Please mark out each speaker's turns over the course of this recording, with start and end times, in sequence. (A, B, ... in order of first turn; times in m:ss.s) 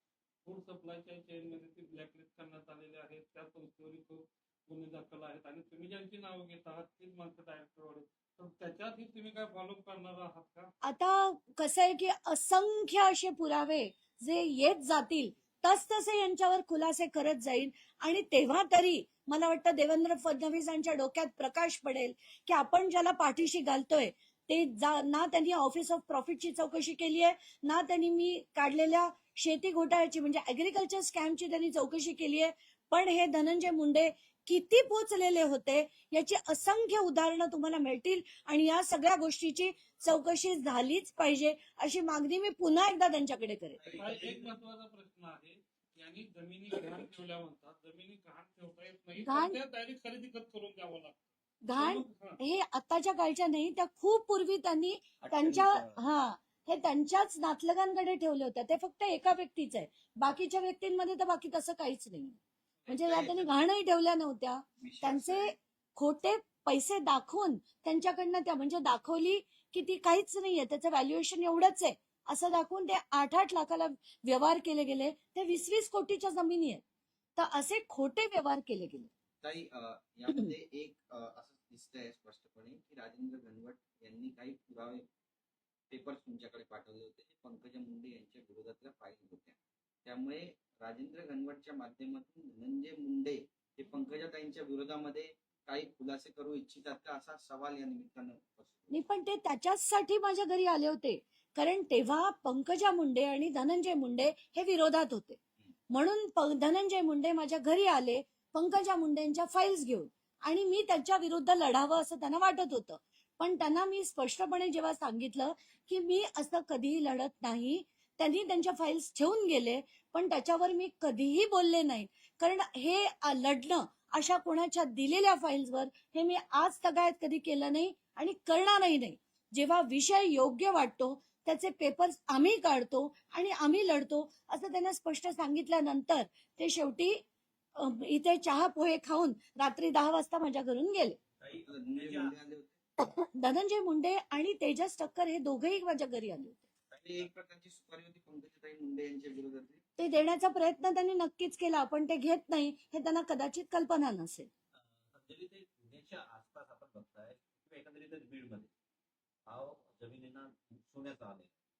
0:00.4-0:10.7 A
0:10.8-0:43.8 B
0:43.8-0:44.5 C
0:43.9-0:52.4 A
0:49.2-0:49.6 B
0:51.6-1:16.8 B
0:55.2-0:56.0 D
1:02.9-1:03.5 D
1:04.8-1:05.5 D
1:17.4-1:19.1 B
1:19.4-1:25.0 D
1:25.9-1:38.9 D
1:38.9-1:45.4 B
1:45.9-2:17.2 B
2:17.8-2:21.2 B
2:21.4-2:22.4 C
2:21.5-2:22.7 D
2:23.3-2:26.6 B
2:26.9-2:27.3 C
2:26.9-2:29.8 D
2:30.0-2:34.5 B
2:34.7-2:38.7 C
2:39.5-2:41.5 C